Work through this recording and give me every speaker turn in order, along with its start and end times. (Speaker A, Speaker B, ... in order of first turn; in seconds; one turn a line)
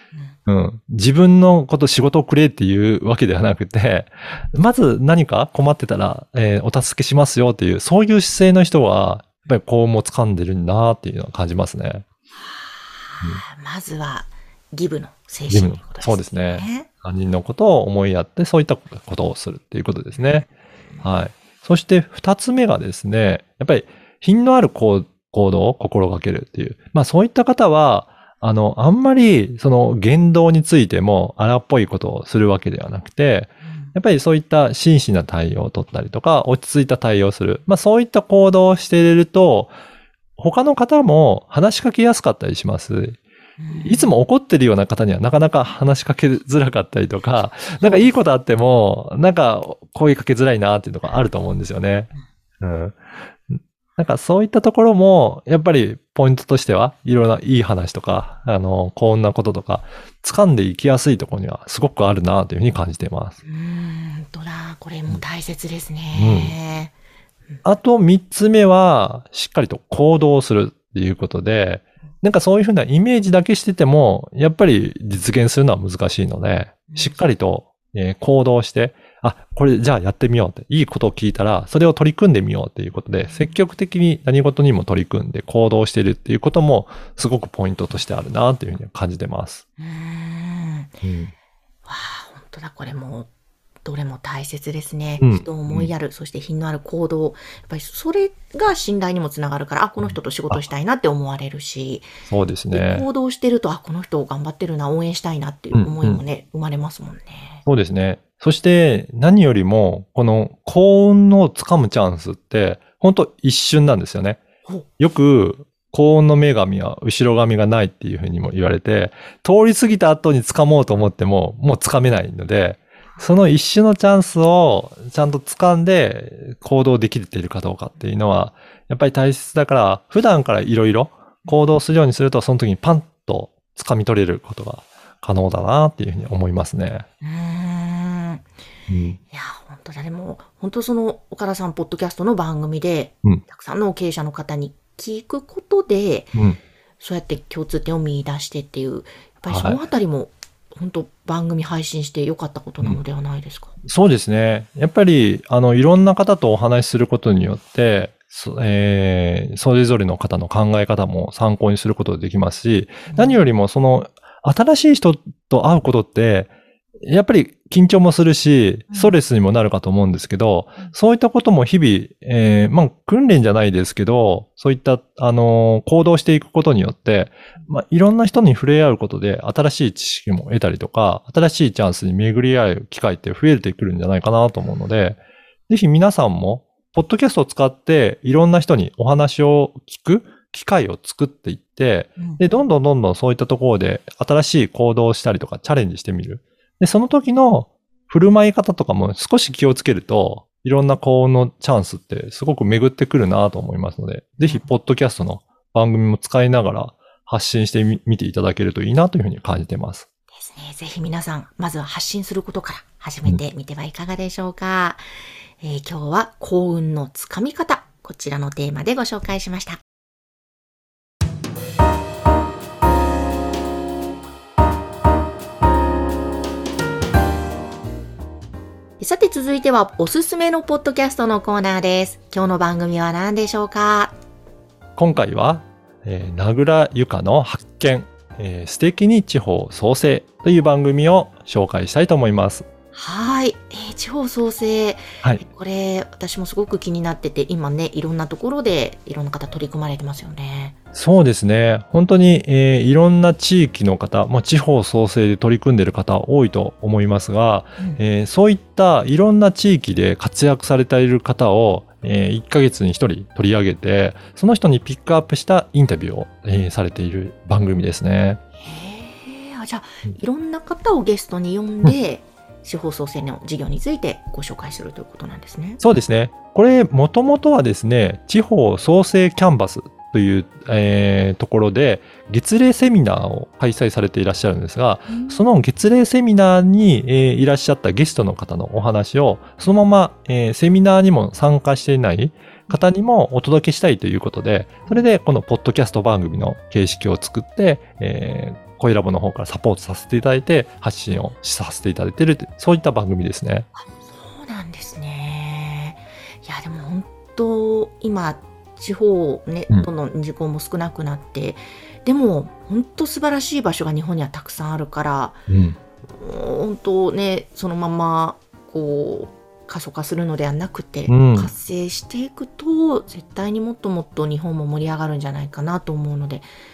Speaker A: 0.5-12.0
Speaker B: 12.4-16.9
Speaker A: 15.5-20.4
Speaker B: 20.1-20.4
Speaker A: 21.0-39.7
Speaker B: 33.6-33.9
Speaker A: 40.4-43.2
Speaker B: 43.6-44.1
Speaker A: 43.7-63.4
Speaker B: 47.8-48.1
Speaker B: 63.4-66.9
Speaker A: 66.1-66.5
Speaker A: 67.6-89.6
Speaker B: 76.9-77.2
Speaker B: 89.8-91.0
Speaker A: 91.0-91.3
Speaker B: 91.8-93.3
Speaker B: 93.8-102.1
Speaker A: 95.2-95.9
Speaker A: 100.0-100.6
Speaker A: 102.3-103.1
Speaker B: 102.7-107.6
Speaker A: 105.7-106.2
Speaker A: 107.7-114.4
Speaker A: 115.0-137.1
Speaker B: 137.2-138.5
Speaker A: 138.9-139.2
Speaker B: 139.3-146.3
Speaker B: 147.0-153.7
Speaker A: 149.5-149.8
Speaker A: 153.8-166.5
Speaker B: 163.1-163.4
Speaker A: 167.0-210.1
Speaker B: 168.9-169.2
Speaker B: 204.4-204.7
Speaker B: 210.3-215.0
Speaker B: 215.6-219.8
Speaker B: 229.0-234.2
Speaker A: 234.9-242.7
Speaker B: 242.9-250.7
Speaker A: 250.9-268.4
Speaker B: 268.6-275.8
Speaker A: 275.8-303.7
Speaker B: 285.1-285.4
Speaker B: 303.8-315.4
Speaker A: 315.5-315.8
Speaker B: 316.1-326.5
Speaker A: 321.1-321.5